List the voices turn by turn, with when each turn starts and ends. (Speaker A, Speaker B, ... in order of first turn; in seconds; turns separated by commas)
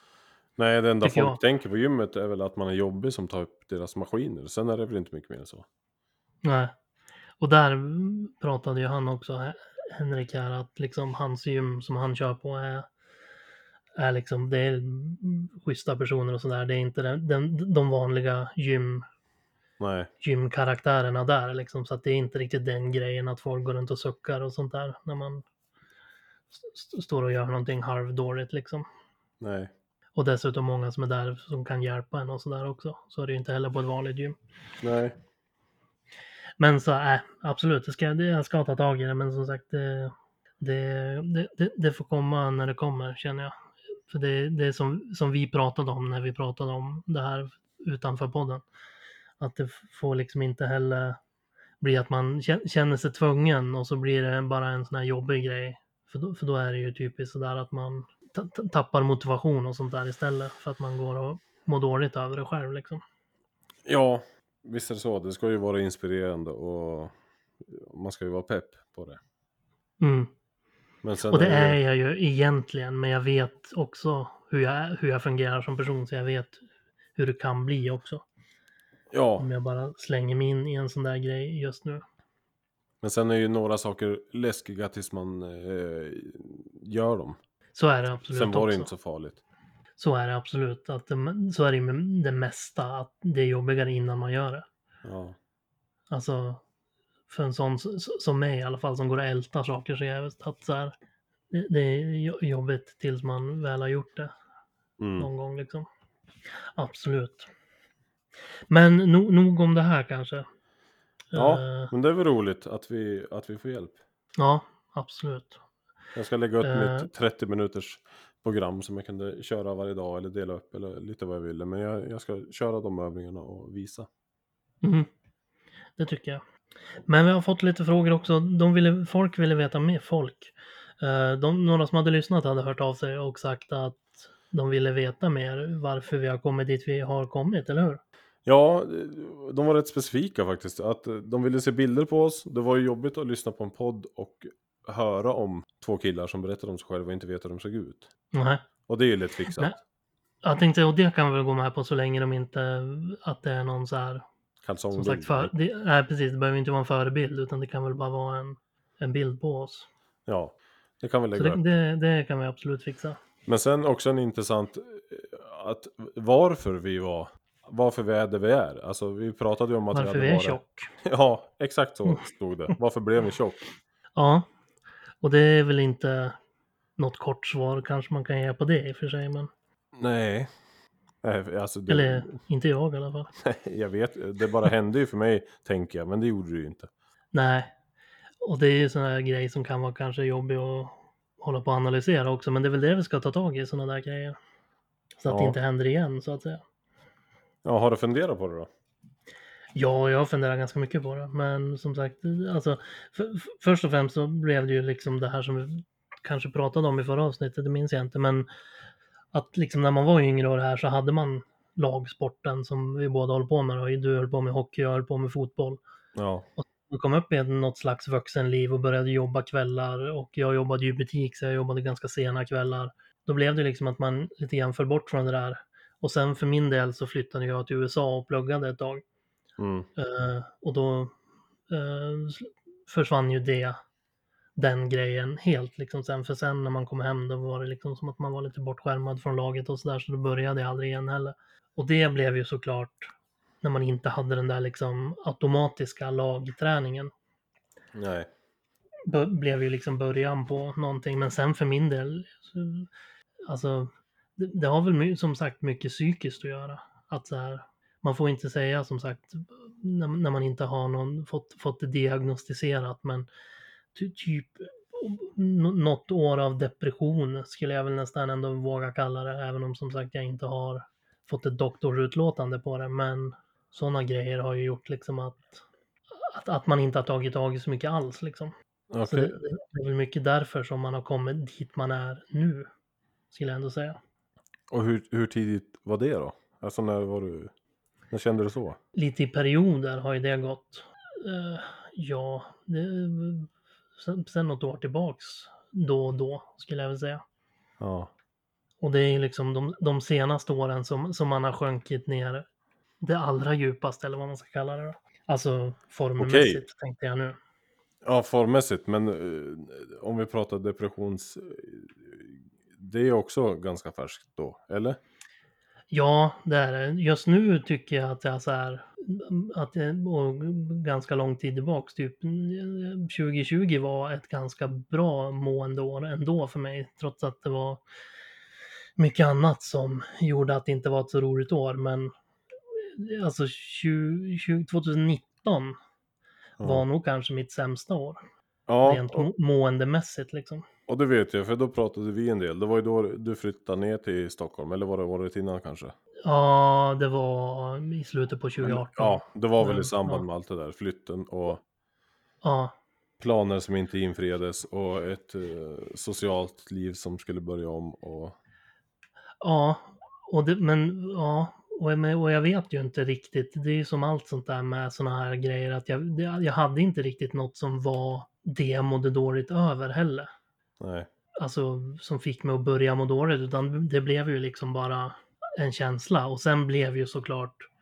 Speaker A: 0.6-5.7, Speaker B: 1.0-1.4, Speaker B: 6.4-6.7, Speaker B: 7.4-12.9, Speaker B: 14.0-19.1, Speaker A: 19.8-20.1, Speaker B: 20.2-25.4, Speaker B: 26.5-28.8, Speaker A: 29.4-29.7, Speaker B: 30.1-34.4, Speaker A: 34.8-35.1, Speaker B: 36.6-43.5, Speaker B: 44.1-48.6, Speaker B: 49.4-51.2, Speaker B: 51.8-63.0, Speaker A: 63.9-67.1, Speaker A: 67.7-69.2, Speaker B: 70.0-70.3, Speaker A: 71.0-71.8, Speaker B: 71.3-76.6, Speaker B: 77.2-78.2, Speaker A: 79.1-79.5, Speaker B: 79.4-82.0, Speaker A: 83.0-87.4, Speaker B: 87.7-88.9, Speaker A: 88.3-89.4, Speaker B: 90.0-94.7, Speaker A: 95.0-95.3, Speaker B: 96.1-96.6, Speaker B: 97.3-100.9, Speaker B: 101.5-104.3, Speaker A: 105.0-105.3, Speaker B: 105.2-105.8, Speaker B: 106.6-107.5, Speaker B: 108.7-110.5, Speaker B: 111.3-111.9, Speaker A: 111.3-114.0, Speaker B: 114.4-115.6, Speaker A: 116.1-124.1, Speaker B: 116.6-117.1, Speaker B: 124.8-125.1, Speaker B: 126.0-126.4, Speaker B: 127.0-138.0, Speaker A: 138.4-148.1, Speaker B: 148.3-148.6, Speaker A: 148.9-149.7, Speaker B: 149.5-149.8, Speaker B: 150.4-154.2, Speaker A: 154.6-155.5, Speaker B: 154.9-159.9, Speaker A: 160.3-161.6, Speaker B: 161.3-163.2, Speaker A: 163.5-173.6, Speaker B: 169.9-170.9, Speaker B: 174.1-174.4, Speaker B: 175.2-176.4, Speaker B: 177.0-179.5, Speaker A: 180.0-180.5, Speaker A: 181.2-182.3, Speaker B: 181.9-183.3, Speaker A: 183.4-186.9, Speaker B: 187.3-187.7, Speaker B: 188.4-194.4, Speaker B: 195.2-196.6, Speaker A: 195.3-195.6, Speaker A: 197.6-198.7, Speaker B: 199.7-208.5, Speaker B: 209.3-215.8, Speaker A: 216.2-216.5, Speaker B: 216.6-229.0, Speaker A: 229.6-229.9, Speaker B: 230.0-231.1, Speaker B: 231.7-233.8, Speaker B: 234.6-243.1, Speaker B: 243.6-247.1, Speaker A: 247.9-248.3, Speaker B: 249.1-252.9, Speaker B: 253.5-263.3, Speaker B: 263.9-275.6, Speaker B: 276.1-278.5, Speaker A: 278.9-279.4, Speaker B: 279.1-282.7, Speaker B: 283.3-284.0, Speaker A: 284.7-287.5, Speaker A: 288.1-288.8, Speaker B: 288.9-297.2, Speaker A: 297.8-298.1, Speaker B: 298.8-302.4, Speaker B: 303.0-307.4, Speaker A: 306.2-306.6, Speaker A: 308.0-315.0, Speaker B: 315.9-327.8, Speaker B: 329.0-332.1, Speaker B: 332.8-335.8, Speaker A: 336.6-336.8, Speaker B: 336.6-338.2, Speaker A: 338.7-339.2, Speaker B: 338.8-340.6, Speaker A: 340.9-345.9, Speaker B: 346.2-350.2, Speaker A: 348.6-351.6, Speaker B: 352.4-352.7, Speaker A: 353.2-358.3, Speaker B: 359.4-370.3, Speaker A: 370.8-371.1, Speaker B: 371.4-377.7